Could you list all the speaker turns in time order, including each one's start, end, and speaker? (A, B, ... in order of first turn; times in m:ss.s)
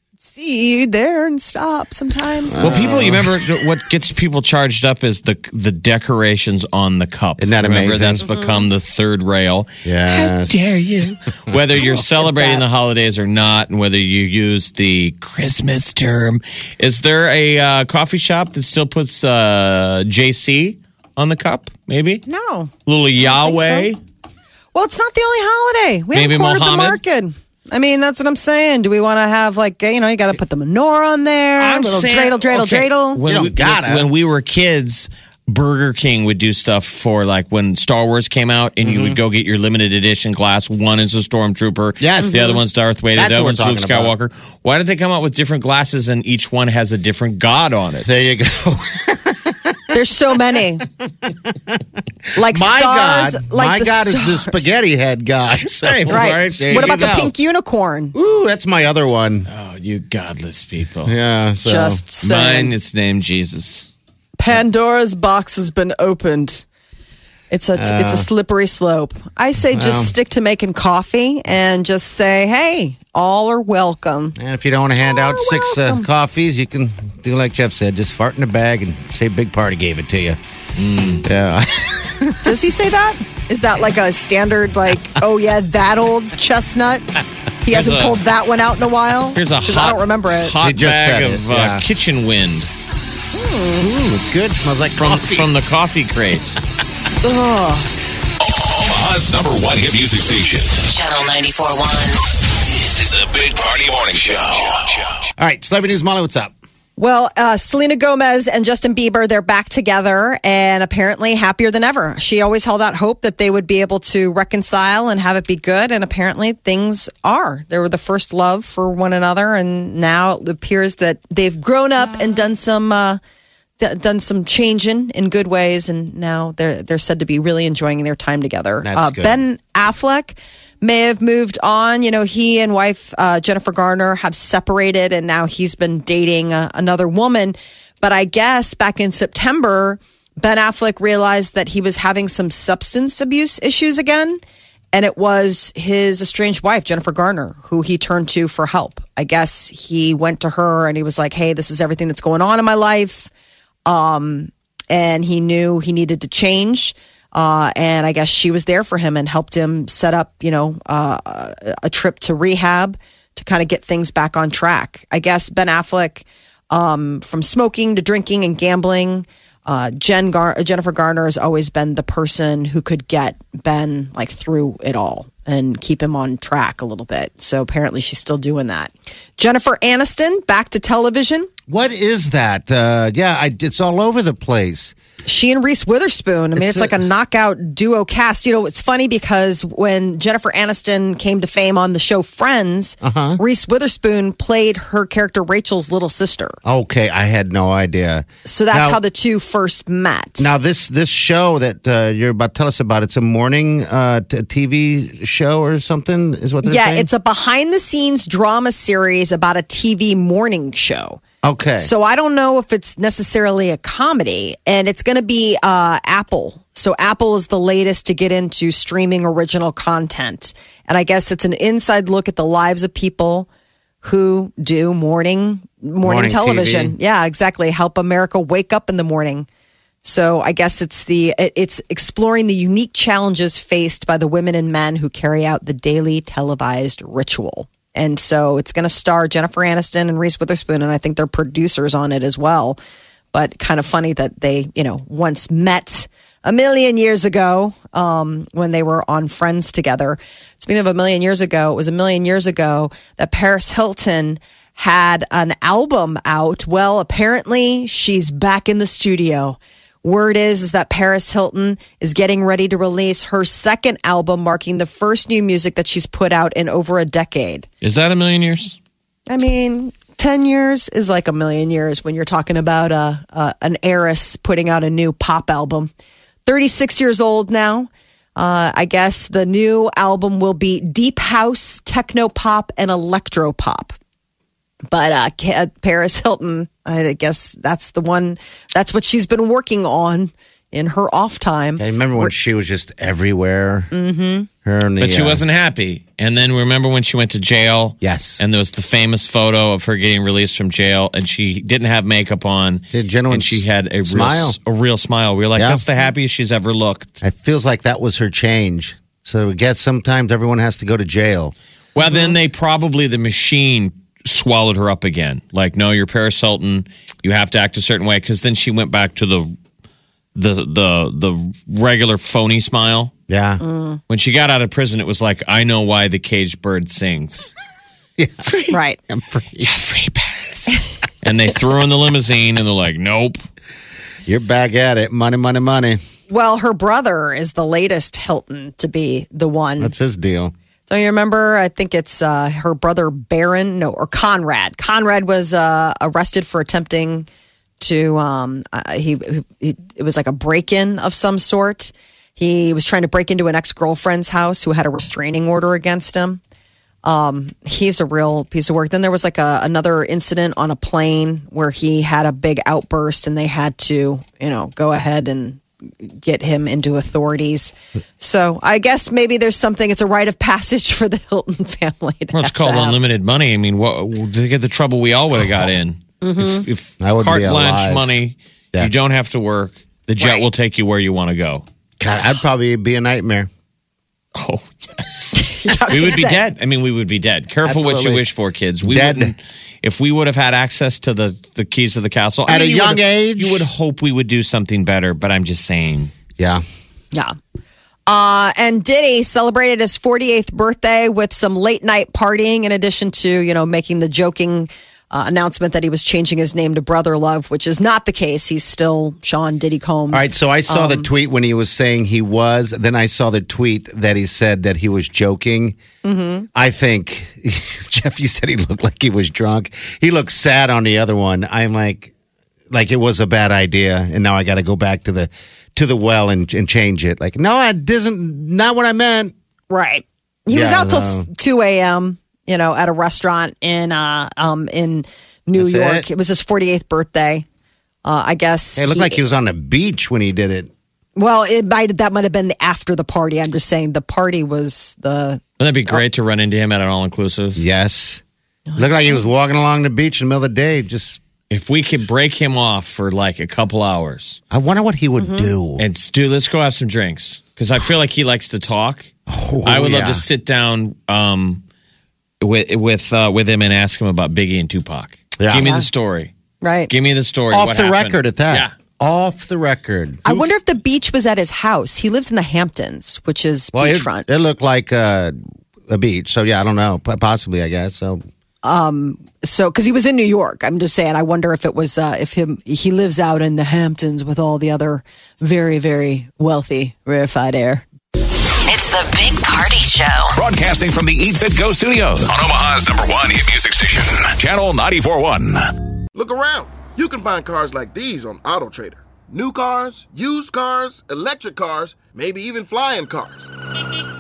0:00.2-0:02.8 A
0:02.5-0:03.4 B
0:02.6-0:22.2 C
0:07.4-0:08.2 B
0:08.2-0:08.7 A
0:09.8-0:11.6 B
0:11.8-0:12.6 A
0:22.2-0:23.9 A
0:22.8-0:24.0 C
0:24.7-0:33.2 A
0:26.1-0:27.0 C
0:31.6-0:48.1 C
0:33.2-0:34.1 B
0:38.8-0:39.2 B
0:42.0-0:42.5 B
0:42.2-0:42.6 A
0:43.1-0:44.1 B
0:48.0-0:49.8 B
0:49.9-0:50.8 A
0:51.3-0:51.8 B
0:52.4-0:54.7 A
0:52.4-0:57.3 B
0:55.8-0:57.3 C
0:56.1-0:58.1 A
0:58.1-0:59.5 B
0:59.5-1:01.1 C
1:01.0-1:02.0 B
1:01.6-1:02.7 A
1:02.2-1:03.9 C
1:04.4-1:06.6 A
1:07.5-1:14.4 A
1:07.8-1:08.3 B
1:09.7-1:10.1 B
1:14.4-1:20.4 B
1:15.0-1:16.0 A
1:20.8-1:21.2 C
1:21.2-1:22.5 B
1:22.4-1:27.1 A
1:27.6-1:30.5 A
1:27.7-1:28.2 C
1:29.3-1:32.7 C
1:30.6-1:31.8 B
1:33.3-1:33.9 A
1:33.8-1:35.5 B
1:35.0-1:36.5 C
1:37.2-1:37.9 A
1:38.4-1:40.8 D
1:40.8-1:42.2 E
1:42.6-1:45.3 D
1:45.4-1:46.5 B
1:47.0-2:03.2 A
2:03.8-2:24.4 A
2:08.8-2:09.4 B
2:24.9-2:33.3 A
2:33.8-3:01.5 A
3:01.7-3:04.9 B
3:05.2-3:16.6 A
3:06.6-3:06.9 B
3:13.0-3:13.4 B
3:16.6-3:19.0 B
3:18.4-3:20.5 A
3:20.4-3:27.1 B
3:26.6-3:31.2 A
3:31.4-3:31.9 B
3:31.8-3:43.5 A
3:44.0-3:49.5 A
3:46.0-3:46.9 B
3:50.0-4:02.8 A
4:03.3-4:27.7 A
4:27.8-4:28.8 C
4:29.3-4:35.9 A
4:36.4-4:43.9 A
4:44.9-4:52.3 A
4:51.8-4:53.9 B
4:53.9-4:54.5 A
4:54.6-4:55.4 B
4:55.0-5:07.2 C
4:58.0-4:58.4 B
5:02.9-5:04.6 B
5:05.6-5:05.8 B
5:07.2-5:11.5 B
5:11.9-5:19.5 C
5:12.1-5:12.3 A
5:20.3-5:23.1 C
5:23.3-5:23.6 B
5:23.6-5:24.0 A
5:24.1-5:27.5 C
5:28.2-5:28.4 B
5:28.4-5:28.8 C
5:28.7-5:29.0 A
5:29.1-5:29.7 B
5:29.6-5:33.4 C
5:34.2-5:36.0 B
5:36.3-5:39.9 A
5:39.8-5:40.5 B
5:40.9-5:47.3 A
5:47.8-5:56.4 A
5:57.0-6:13.0 A
6:12.3-6:21.6 C
6:16.2-6:16.6 A
6:17.0-6:18.2 B
6:22.0-6:23.5 B
6:24.3-6:36.1 C
6:25.4-6:26.4 A
6:27.6-6:28.2 B
6:28.8-6:29.3 B
6:32.5-6:33.6 B
6:36.4-6:36.6 B
6:38.1-6:51.1 A
6:50.1-6:55.8 B
6:56.0-6:56.5 A
6:56.5-7:02.1 B
7:02.7-7:09.3 B
7:09.7-7:17.4 A
7:10.5-7:11.3 B
7:15.5-7:16.0 B
7:18.0-7:19.2 A
7:18.8-7:20.7 B
7:21.2-7:26.0 A
7:25.6-7:27.6 C
7:27.6-7:28.2 B
7:28.7-7:29.2 A
7:28.8-7:31.2 B
7:31.5-7:34.4 C
7:34.5-7:35.8 B
7:35.2-7:35.5 A
7:35.8-7:39.1 C
7:39.3-7:40.2 B
7:39.6-7:41.6 C
7:42.4-7:46.3 C
7:45.4-7:45.7 B
7:45.6-7:45.8 A
7:46.6-7:46.9 A
7:46.9-7:48.7 C
7:47.5-7:50.2 B
7:50.2-7:54.2 A
7:53.7-7:55.3 B
7:55.9-7:58.2 B
7:58.6-8:07.8 A
8:08.7-8:10.4 E
8:10.4-8:15.6 D
8:16.1-8:23.5 F